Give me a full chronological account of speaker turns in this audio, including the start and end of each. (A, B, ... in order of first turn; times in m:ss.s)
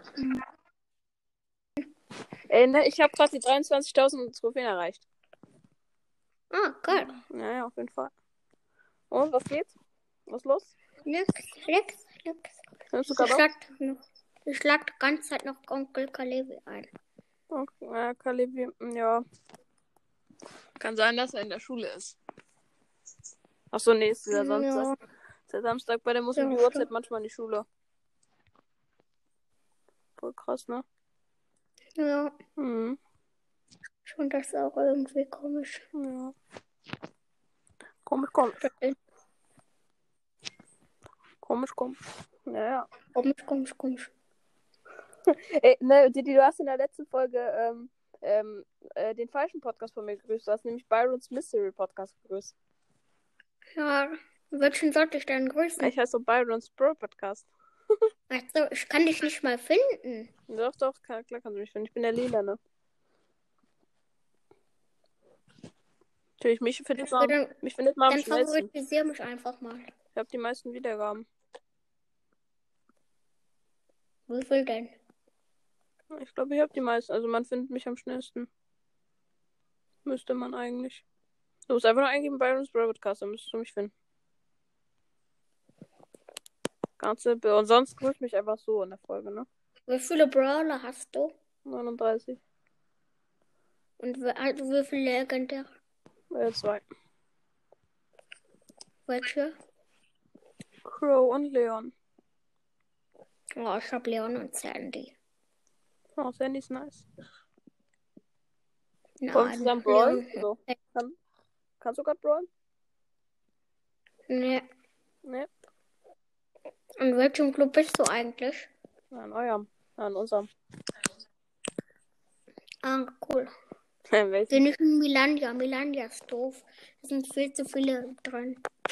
0:02.5-0:05.0 A
0:06.5-0:07.2 B
0:06.9-0:08.1 A
0:09.1-0:09.7 A
0:10.3-0:10.7 A
0:11.0-0:12.6 B
0:12.9-0:13.4 A
0:13.1-0:16.9 B
0:17.5-0:19.2 A
0:20.8-0:22.2 A
0:23.7-0:24.9 A
0:24.3-0:25.0 B
0:25.5-0:27.6 A
0:26.3-0:26.8 B
0:30.2-0:30.8 A
0:32.0-0:32.4 B
0:32.6-0:33.0 A
0:34.0-0:35.8 B
0:35.9-0:36.3 A
0:38.0-0:38.7 A
0:38.6-0:39.0 B
0:41.4-0:42.9 A
0:43.1-0:44.1 B
0:45.3-0:52.5 A
0:53.8-0:55.9 B
0:55.8-0:57.5 A
0:58.3-1:00.3 B
1:00.5-1:02.6 A
1:06.4-1:08.7 A
1:07.0-1:07.5 B
1:08.1-1:09.9 B
1:10.1-1:11.3 A
1:14.3-1:14.9 B
1:16.1-1:18.5 A
1:20.0-1:21.0 A
1:21.7-1:23.9 A
1:27.0-1:29.4 A
1:29.9-1:31.3 B
1:31.6-1:32.4 A
1:34.0-1:35.7 B
1:36.3-1:36.8 A
1:39.1-1:39.6 B
1:40.9-1:41.9 A
1:43.6-1:45.1 B
1:46.2-1:47.0 A
1:49.2-1:50.4 B
1:49.3-1:51.1 A
1:51.8-1:52.5 A
1:54.3-1:54.6 B
1:57.0-1:58.7 B
1:59.1-2:00.5 A
2:02.8-2:03.5 B
2:04.1-2:04.6 A
2:04.5-2:08.6 B